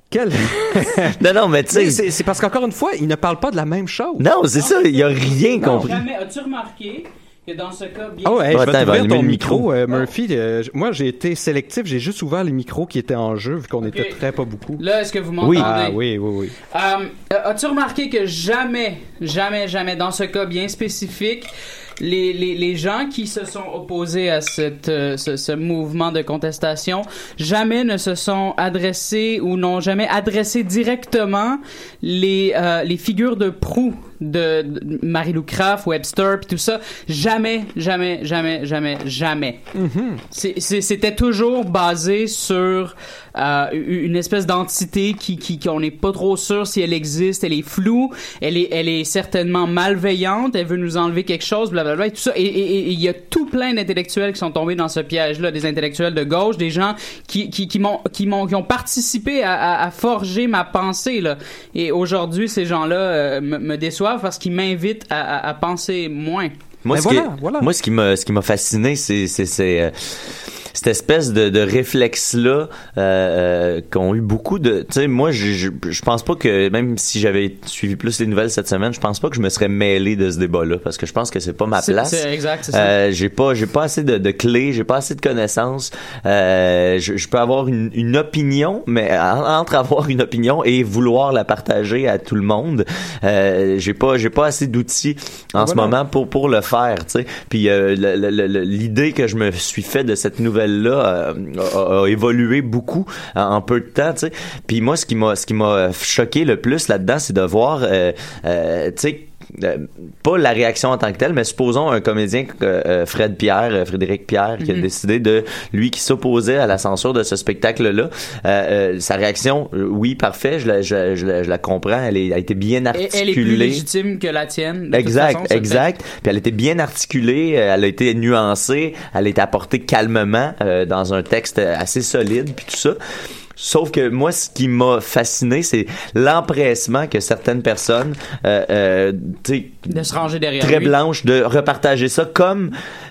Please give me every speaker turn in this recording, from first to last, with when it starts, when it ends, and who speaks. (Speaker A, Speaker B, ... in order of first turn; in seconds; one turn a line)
Speaker A: 0.1-1.2
Speaker B: 0.8-2.0
Speaker A: 1.7-4.3
Speaker B: 4.2-6.0
Speaker C: 4.6-8.7
Speaker A: 8.2-14.8
Speaker B: 8.5-9.7
Speaker C: 13.8-14.2
Speaker C: 14.8-16.0
Speaker B: 15.4-15.7
Speaker A: 15.5-16.6
Speaker C: 16.6-39.6
Speaker A: 39.7-40.2
Speaker C: 40.3-66.5
Speaker B: 66.8-123.8
Speaker A: 66.9-67.7
Speaker C: 81.8-82.9
Speaker A: 95.6-96.0
Speaker C: 122.9-125.8
Speaker B: 124.9-133.0
Speaker B: 133.6-140.0
Speaker C: 139.9-140.9
Speaker B: 140.6-142.7